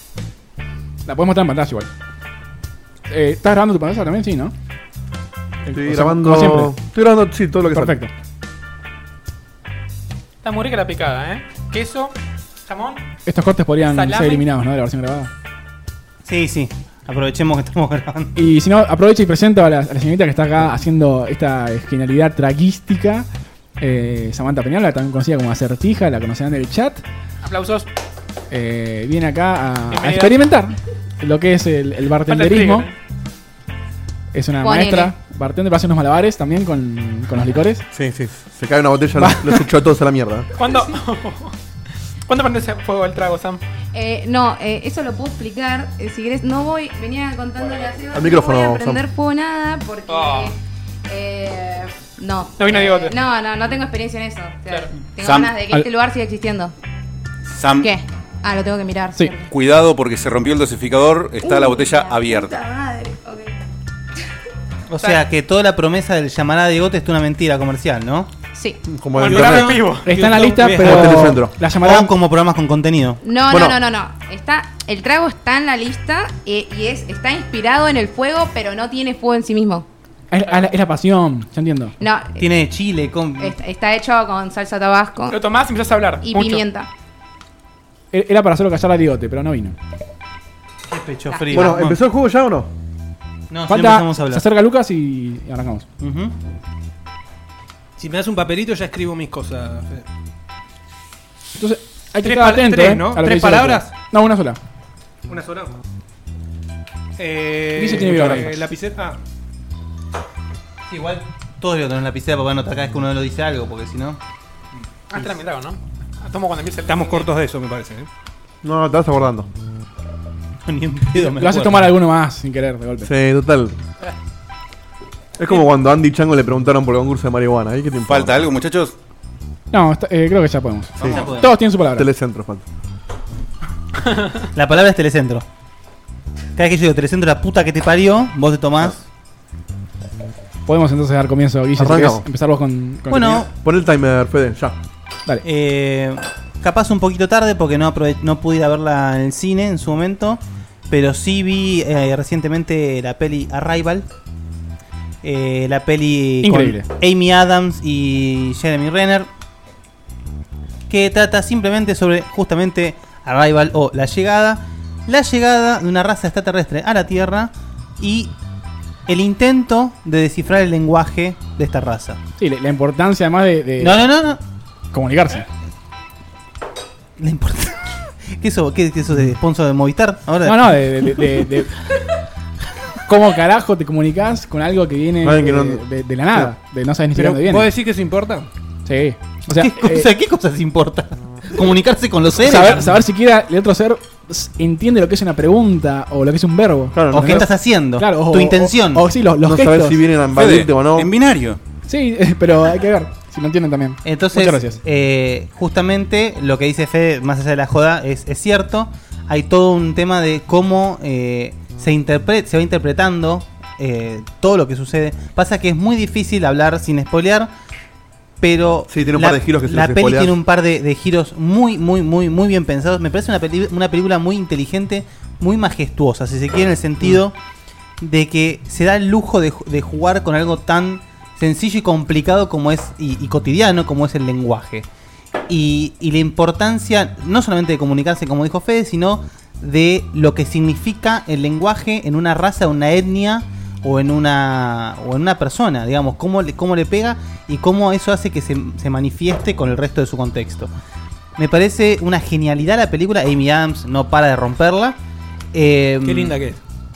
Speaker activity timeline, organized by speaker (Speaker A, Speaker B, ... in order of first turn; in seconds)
Speaker A: 1.1-1.9, 3.1-4.5, 5.7-6.8, 7.7-8.1, 13.3-15.3, 18.4-23.3, 23.8-27.0, 28.5-32.9, 34.3-37.9, 39.2-39.6, 70.0-72.1, 80.3-81.9, 88.1-89.8, 93.7-95.9, 101.6-104.6, 107.8-108.6, 121.2-123.1, 129.7-132.1, 140.7-143.5, 156.4-156.9, 172.4-174.1, 174.9-175.5, 180.4-181.8, 183.1-187.7, 188.9-190.1, 192.4-200.0, 201.9-204.8
Speaker B: 5.7-8.0, 37.9-40.5, 48.1-49.0, 68.9-69.8, 70.8-71.5, 73.5-73.8, 91.5-92.7, 118.6-119.5, 123.0-123.8, 125.4-128.4, 131.0-132.7, 141.8-142.2, 143.6-144.8, 185.2-185.8, 196.9-197.5, 199.4-201.1, 218.9-220.4
Speaker C: 10.4-12.2, 12.7-13.0, 13.9-14.4, 27.4-27.9, 29.9-30.4, 32.3-32.9, 40.6-41.5, 42.3-43.6, 50.1-50.5, 52.6-53.2, 69.2-70.1, 85.3-86.6, 115.1-117.3
Speaker D: 16.2-18.3, 64.9-68.3, 71.8-73.2, 82.4-83.6, 90.9-92.0, 93.5-94.5, 96.0-96.3, 110.9-114.2, 120.7-121.9, 131.0-131.5, 134.5-135.4, 136.6-139.0, 143.1-143.5, 145.4-154.1, 155.2-159.3, 160.9-168.3, 169.1-172.2, 173.8-174.4, 177.2-181.3, 189.5-192.9, 197.1-199.1, 204.0-217.5, 218.4-227.3, 228.0-234.9, 235.5-250.7, 251.4-255.0, 255.5-256.4
Speaker E: 34.6-35.1, 43.9-56.7, 57.8-59.5, 61.4-63.5, 68.5-68.8, 73.2-79.9, 82.0-82.5, 83.4-85.4, 86.2-86.9, 91.3-91.7
Speaker F: 55.2-55.5, 57.5-57.9, 59.5-62.6, 128.1-128.9, 200.3-201.6
Speaker G: 69.1-71.4, 98.0-100.1, 102.2-103.9, 105.3-105.7, 107.2-109.2, 116.9-118.1, 187.2-188.5, 256.0-256.6